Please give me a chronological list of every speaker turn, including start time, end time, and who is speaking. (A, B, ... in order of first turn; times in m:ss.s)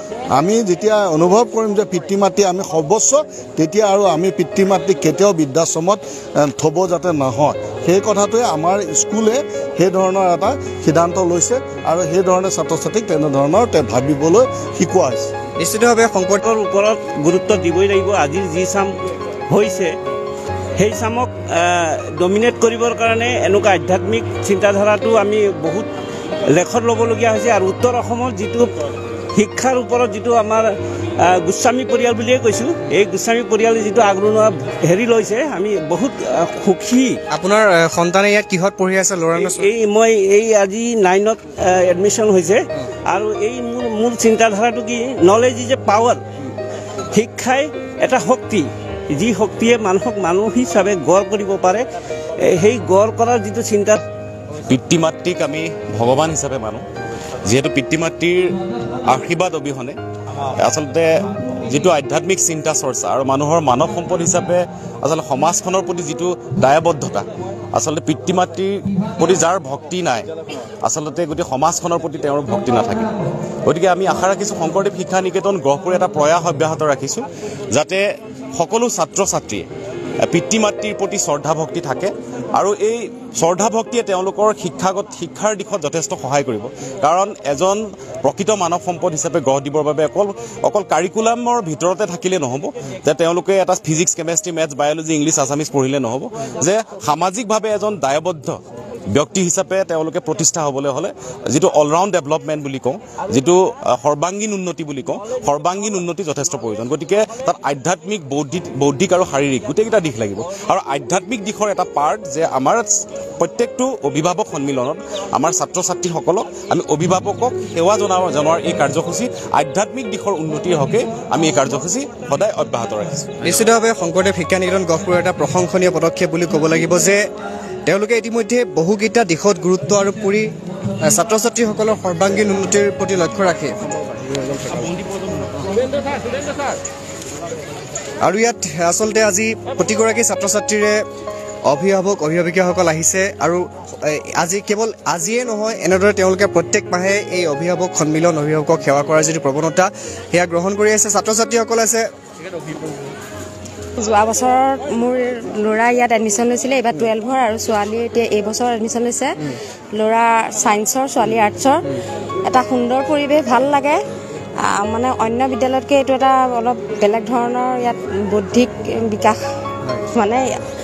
0:00.4-0:15.3 A
0:15.6-0:16.4 B
0:16.4-0:18.9 C
0:19.5-0:19.9 C
0:20.8-0:25.9 C
0:26.5-0:28.7 C
0:29.4-0:30.7 C
0:31.2-0:37.2 C
0:37.3-0:39.7 B
0:39.4-0:46.2 C
0:47.1-0:51.8 C
0:52.5-0:54.0 C
0:54.7-0:56.8 D
0:57.5-1:00.0 D
1:00.6-1:10.3 D
1:10.8-1:13.1 D
1:13.7-1:18.0 D
1:18.6-1:19.7 D
1:20.3-1:38.6 D
1:39.1-2:03.6 D
2:03.4-2:07.2 B
2:07.9-2:10.5 B
2:11.0-2:13.8 B
2:18.2-2:21.0 B
2:21.7-2:32.0 B
2:34.0-2:39.3 E
2:40.0-2:41.8 E
2:42.4-2:44.0 E
2:44.7-2:49.4 E
2:50.1-2:50.4 E